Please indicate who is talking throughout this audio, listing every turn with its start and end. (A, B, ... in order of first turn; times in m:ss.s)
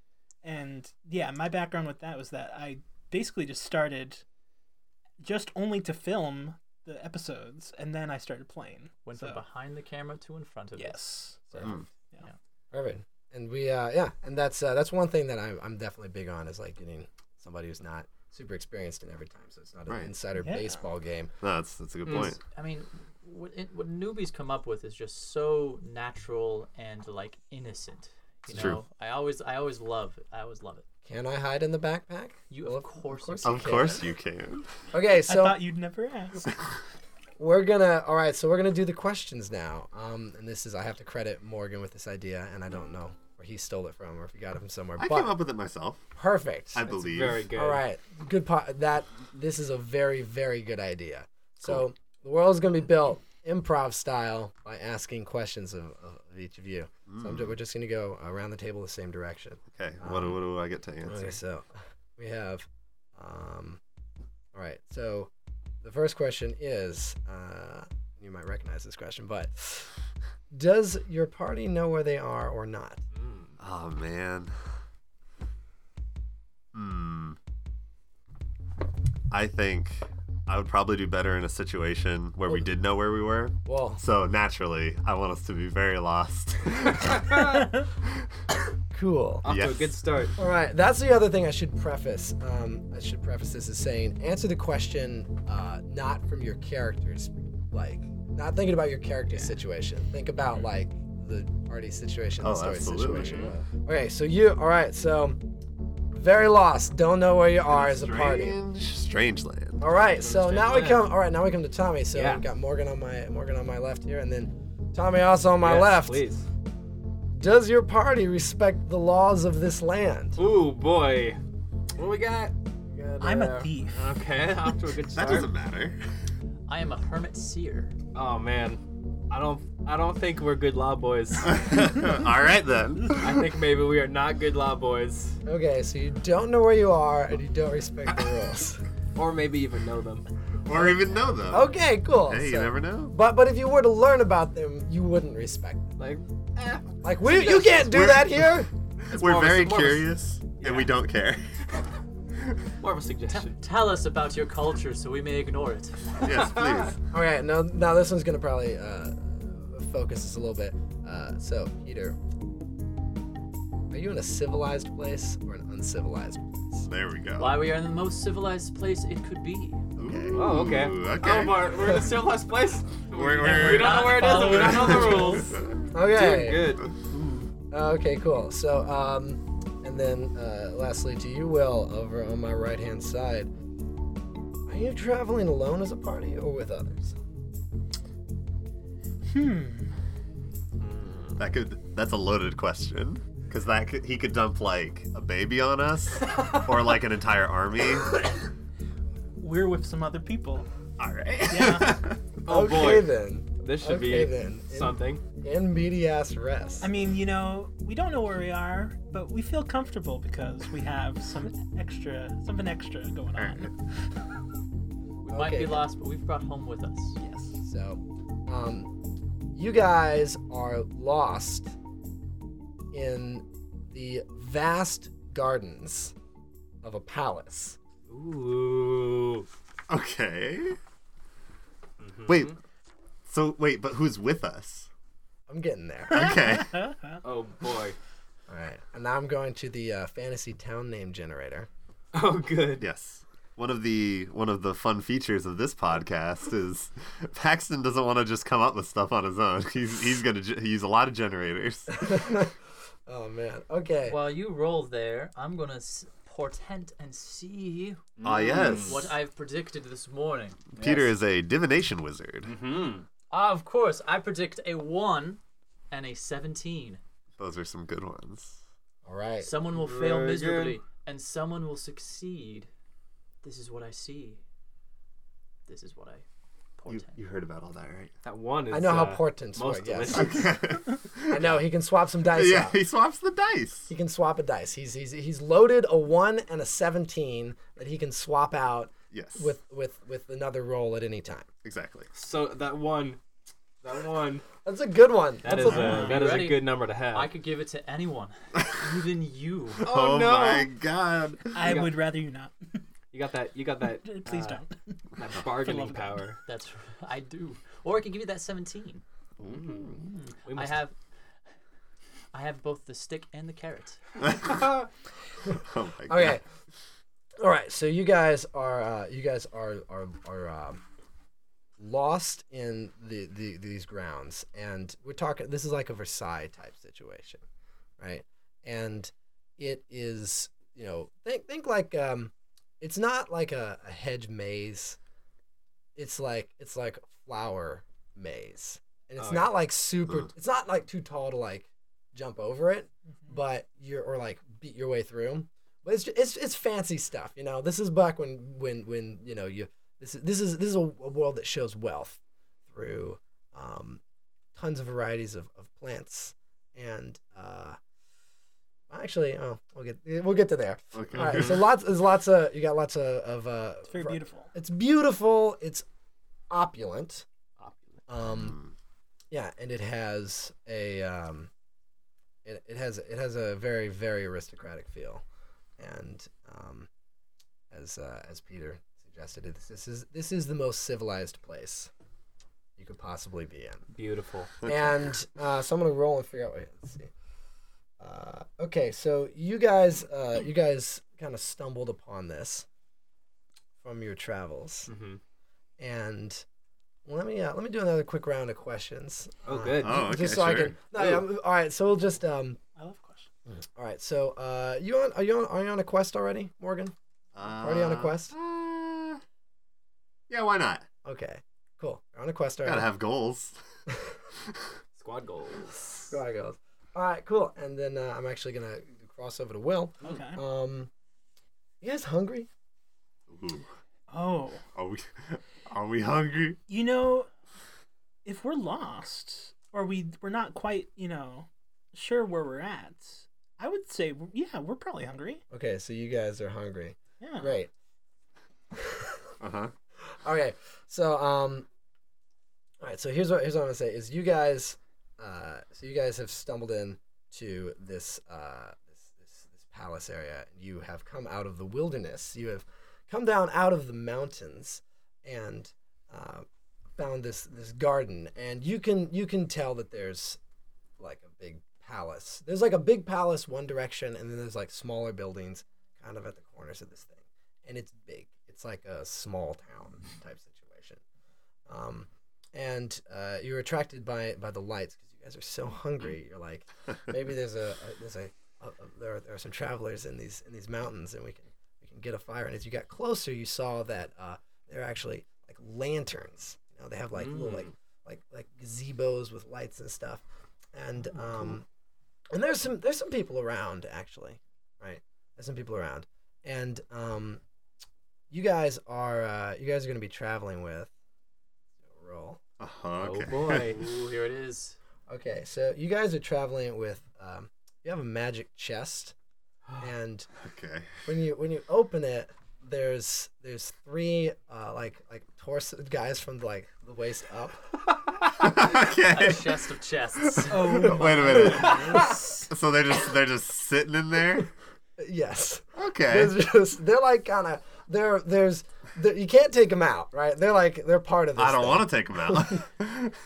0:00.4-0:04.2 A
0:05.2-0:09.4 A
0:09.1-0:12.4 B
0:10.8-0:12.3 A
0:11.6-0:11.9 C
0:12.7-0:21.3 D
0:19.9-0:20.1 C
0:20.4-0:20.8 A
0:21.4-0:22.4 C
0:22.1-0:22.4 E
0:22.1-0:30.8 B
0:28.5-0:28.8 C
0:31.1-0:34.0 D
0:32.5-0:34.0 B
0:33.4-0:34.7 C
0:34.9-0:35.6 D
0:35.2-0:36.5 A
0:37.4-0:45.4 D
0:45.0-0:46.0 C
0:46.2-0:47.0 D
0:46.7-0:47.5 C
0:46.9-0:47.8 E
0:47.5-1:00.4 D
0:57.1-0:57.6 C
0:59.7-1:01.4 C
1:01.1-1:03.8 D
1:04.5-1:05.3 D
1:05.8-1:09.9 D
1:10.5-1:13.0 D
1:13.2-1:13.6 E
1:13.6-1:14.6 C
1:16.7-1:17.4 C
1:19.3-1:27.4 C
1:23.6-1:24.0 D
1:27.2-1:27.6 E
1:28.9-1:29.5 D
1:29.4-1:30.4 E
1:29.4-1:29.9 C
1:30.4-1:45.4 D
1:42.4-1:43.5 C
1:46.1-1:48.6 D
1:47.7-1:49.8 C
1:49.8-1:56.2 D
1:50.1-1:51.1 E
1:52.1-1:52.4 E
1:55.6-1:56.5 E
1:57.4-2:00.4 D
2:00.4-2:01.4 E
2:02.0-2:05.5 E
2:03.2-2:04.1 A
2:05.1-2:06.0 C
2:06.7-2:07.9 B
2:08.1-2:11.6 E
2:11.4-2:13.4 C
2:13.2-2:15.4 E
2:15.5-2:18.8 D
2:19.2-2:20.3 E
2:20.6-2:21.7 C
2:21.5-2:25.9 D
2:22.2-2:23.2 C
2:26.0-2:27.8 E
2:27.0-2:28.7 D
2:27.7-2:31.6 C
2:29.1-2:31.0 E
2:32.8-2:33.6 E
2:33.3-2:36.2 B
2:36.2-2:37.0 C
2:36.2-2:36.9 E
2:37.1-2:42.2 D
2:43.9-2:46.9 D
2:46.8-2:47.6 C
2:47.4-2:49.8 B
2:50.0-2:51.8 C
2:50.0-2:50.4 D
2:50.3-2:55.6 E
2:53.1-2:55.8 C
2:53.4-2:55.5 B
2:55.9-2:56.8 D
2:56.1-2:56.9 E
2:57.7-3:03.5 D
3:04.7-3:07.2 D
3:09.3-3:09.9 A
3:10.8-3:11.4 E
3:11.4-3:18.1 C
3:19.4-3:20.7 A
3:21.0-3:22.2 C
3:21.5-3:22.0 A
3:22.4-3:25.2 E
3:22.5-3:26.9 D
3:26.8-3:33.7 A
3:35.2-3:37.2 B
3:35.3-3:35.9 D
3:37.6-3:38.9 D
3:39.5-3:41.7 D
3:42.9-3:46.1 D
3:46.8-3:47.8 D
3:48.1-3:49.5 E
3:49.9-3:50.8 C
3:52.0-3:52.6 E
3:52.3-3:52.6 C
3:53.3-3:54.9 C
3:55.5-3:56.4 D
3:56.1-3:56.8 C
3:56.4-3:57.2 A
3:57.2-3:58.0 E
3:58.5-4:01.7 D
4:02.1-4:02.8 E
4:02.8-4:12.3 C
4:12.0-4:12.5 D
4:13.1-4:14.2 D
4:14.1-4:20.7 B
4:18.2-4:19.1 E
4:18.2-4:19.1 C
4:20.8-4:21.1 E
4:20.8-4:22.5 C
4:22.4-4:23.1 E
4:23.3-4:27.0 B
4:27.4-4:28.6 C
4:29.0-4:29.5 D
4:29.4-4:32.7 B
4:29.7-4:30.8 E
4:33.4-4:34.4 B
4:35.7-4:36.2 B
4:36.8-4:37.2 B
4:36.9-4:38.1 C
4:38.2-4:40.6 E
4:38.7-4:40.4 D
4:40.1-4:41.6 C
4:41.3-4:42.8 D
4:42.2-4:43.9 C
4:43.9-4:51.5 D
4:49.1-4:49.6 C
4:51.6-4:52.1 C
4:52.1-4:53.2 E
4:53.8-4:54.4 E
4:54.6-4:56.1 D
4:55.4-4:57.3 E
4:55.6-4:59.9 B
4:55.6-4:56.3 A
4:59.8-5:01.8 C
4:59.8-5:00.7 E
5:01.5-5:02.8 A
5:01.6-5:02.0 E
5:03.1-5:04.6 E
5:04.0-5:06.3 A
5:05.2-5:06.4 E
5:06.4-5:09.0 B
5:09.4-5:09.9 C
5:09.4-5:10.8 E
5:10.5-5:10.9 B
5:12.3-5:14.0 B
5:14.2-5:14.6 C
5:15.5-5:16.4 C
5:16.1-5:16.4 D
5:17.4-5:20.8 D
5:21.8-5:27.4 D
5:28.0-5:35.0 D
5:36.0-5:52.2 D
5:39.2-5:39.5 E
5:52.7-5:54.0 D
5:54.6-5:57.8 D
5:58.9-6:05.9 D
6:00.9-6:01.7 C
6:01.2-6:01.6 E
6:03.9-6:04.5 A
6:06.5-6:07.2 D
6:07.6-6:08.0 E
6:08.1-6:08.6 D
6:08.3-6:08.7 C
6:09.3-6:11.5 D
6:12.4-6:15.2 D
6:15.8-6:16.9 D
6:17.7-6:21.9 D
6:22.8-6:23.8 D
6:23.9-6:24.5 E
6:24.6-6:25.0 C
6:24.6-6:27.1 D
6:28.0-6:32.7 D
6:33.8-6:34.9 D
6:34.9-6:35.2 E
6:35.8-6:36.4 D
6:37.0-6:42.6 D
6:39.5-6:40.1 E
6:39.8-6:40.8 C
6:40.9-6:41.2 E
6:42.8-6:43.3 A
6:43.5-6:46.9 D
6:47.4-6:49.2 C
6:47.6-6:48.3 D
6:50.3-6:50.9 C
6:51.0-6:52.9 D
6:52.6-6:53.6 C
6:55.0-6:56.1 E
6:56.1-7:00.9 D
7:00.0-7:00.4 A
7:01.8-7:02.5 D
7:03.3-7:03.7 C
7:04.1-7:04.6 A
7:04.8-7:06.6 C
7:06.7-7:07.3 A
7:08.2-7:15.4 A
7:15.5-7:17.7 D
7:17.2-7:17.6 A
7:18.7-7:19.3 D
7:19.4-7:19.7 C
7:20.2-7:21.7 D
7:22.8-7:40.4 D
7:41.0-7:51.0 D
7:51.7-8:10.2 D
8:07.2-8:07.7 E
8:10.7-8:11.6 D
8:12.3-8:17.4 D
8:18.3-8:20.9 D
8:21.9-8:22.4 D
8:22.6-8:23.8 C
8:23.0-8:23.8 E
8:23.5-8:24.8 B
8:25.1-8:29.2 D
8:29.8-8:30.3 D
8:30.4-8:31.0 C
8:31.0-8:37.6 D
8:38.4-8:39.7 C
8:38.8-8:40.9 B
8:40.2-8:44.5 C
8:40.5-8:42.5 A
8:41.0-8:42.0 D
8:41.5-8:42.1 E
8:45.0-8:52.6 D
8:45.8-8:46.4 C
8:51.4-8:53.1 C